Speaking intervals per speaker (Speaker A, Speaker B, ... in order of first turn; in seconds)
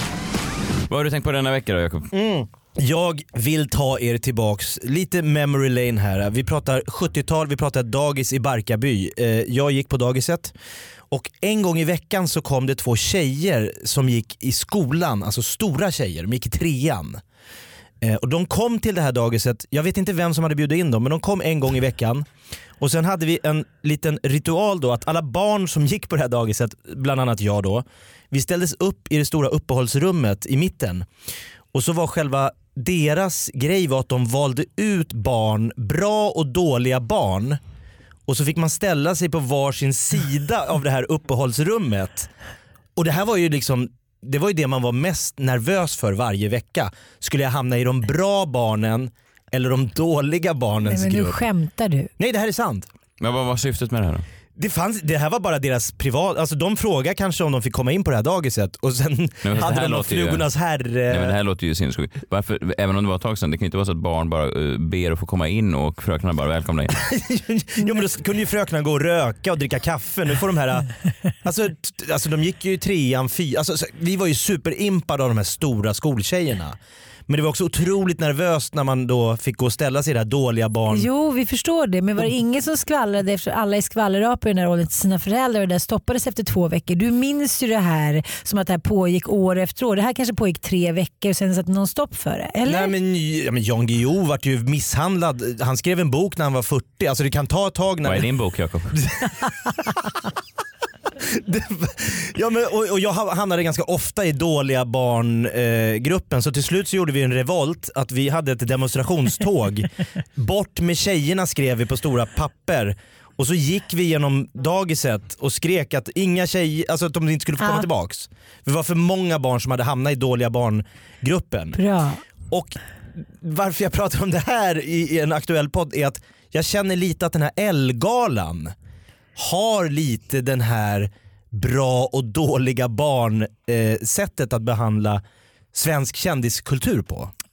Speaker A: 0.9-2.1, 53.2-54.2, 59.4-60.5, 61.1-67.0, 98.0-99.0
Speaker B: 2.1-10.5, 11.1-17.2, 18.0-22.3, 22.8-31.1, 31.7-37.6, 38.3-42.3, 43.0-51.4, 52.2-52.9, 54.6-61.4, 66.9-70.9, 71.4-81.1, 92.7-98.3, 99.0-100.2, 101.2-121.8, 122.5-122.8, 123.3-128.7, 129.4-135.2, 135.7-137.3
Speaker C: 50.9-52.1, 80.9-92.9, 117.6-117.9, 121.7-122.2